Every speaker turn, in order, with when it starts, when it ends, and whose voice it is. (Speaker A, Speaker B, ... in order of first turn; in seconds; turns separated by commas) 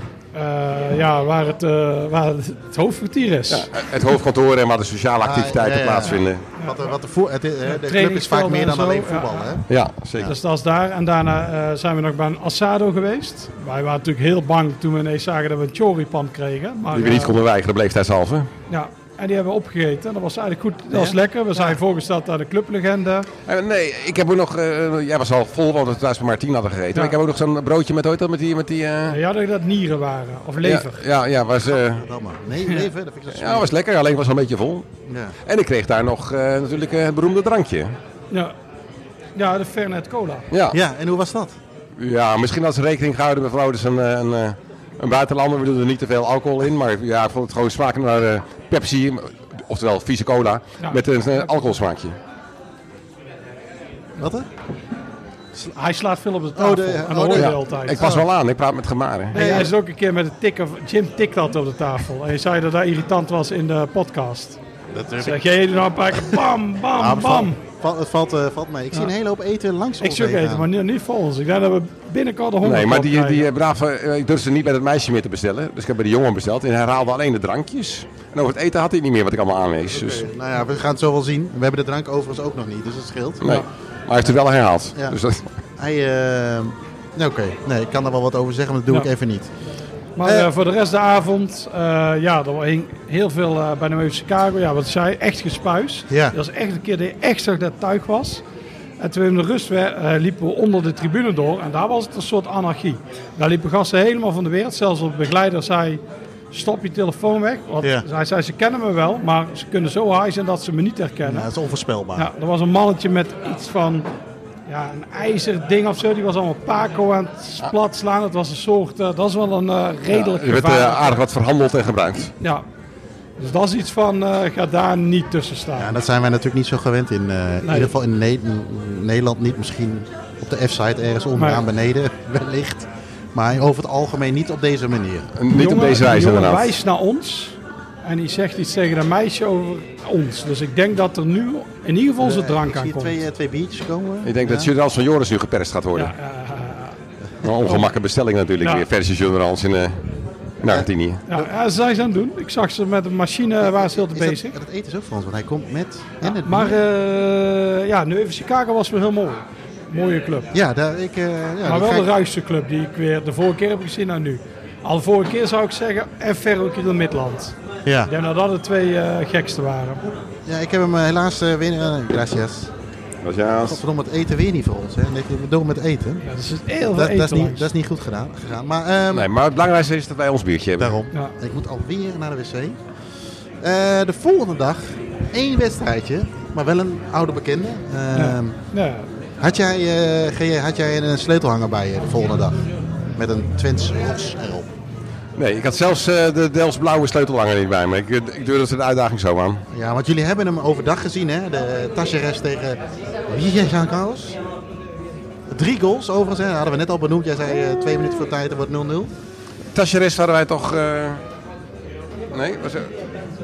Speaker A: 0.3-3.7, Speaker B: 3.5-6.4, Speaker C: 5.2-9.6, Speaker A: 6.6-6.8, Speaker A: 7.7-9.6, Speaker B: 9.7-10.3, Speaker A: 10.2-17.3, Speaker B: 16.9-18.5, Speaker A: 18.7-23.3, Speaker C: 20.9-21.7, Speaker B: 23.4-29.2, Speaker A: 29.1-31.0, Speaker B: 30.6-32.0, Speaker C: 31.7-33.7, Speaker B: 33.3-34.8, Speaker C: 35.1-35.3, Speaker B: 35.4-37.9, Speaker A: 39.4-40.5, Speaker B: 40.5-40.8, Speaker C: 40.7-41.5, Speaker B: 42.0-52.1, Speaker C: 54.2-54.5, Speaker A: 55.6-58.1, Speaker C: 56.5-58.2, Speaker B: 57.3-59.6, Speaker A: 59.3-64.6, Speaker C: 59.3-59.7, Speaker C: 64.9-65.4, Speaker A: 65.2-67.6, Speaker C: 66.9-70.7, Speaker A: 70.0-73.5, Speaker B: 72.6-80.2, Speaker C: 79.9-83.4, Speaker B: 83.4-85.5, Speaker C: 85.8-89.5, Speaker A: 90.2-98.4, Speaker C: 90.2-90.5, Speaker C: 96.1-96.3, Speaker A: 99.0-111.5, Speaker C: 111.2-112.3, Speaker A: 112.2-114.1, Speaker A: 114.7-121.2, Speaker B: 120.1-122.3, Speaker A: 123.4-126.0, Speaker C: 125.8-135.3, Speaker A: 127.6-127.9, Speaker A: 131.4-131.6, Speaker B: 135.3-136.7, Speaker A: 135.5-143.2, Speaker C: 142.2-144.7, Speaker B: 144.2-146.1, Speaker A: 145.9-147.0, Speaker B: 147.4-150.0, Speaker B: 150.6-151.2, Speaker C: 150.7-151.5, Speaker A: 151.3-154.6, Speaker C: 153.7-156.8, Speaker A: 156.2-160.5, Speaker C: 160.5-162.1, Speaker A: 161.6-167.6, Speaker C: 167.8-168.1, Speaker A: 168.1-170.0, Speaker C: 170.4-172.7, Speaker B: 173.2-173.8, Speaker C: 173.6-176.2, Speaker A: 176.2-177.7, Speaker C: 176.8-179.3, Speaker B: 179.1-181.0, Speaker C: 180.8-182.8, Speaker C: 183.6-188.6, Speaker A: 188.1-189.1, Speaker C: 189.4-194.7, Speaker B: 195.3-199.6, Speaker C: 199.7-204.4, Speaker C: 205.5-209.1, Speaker B: 209.7-211.2, Speaker B: 212.3-212.9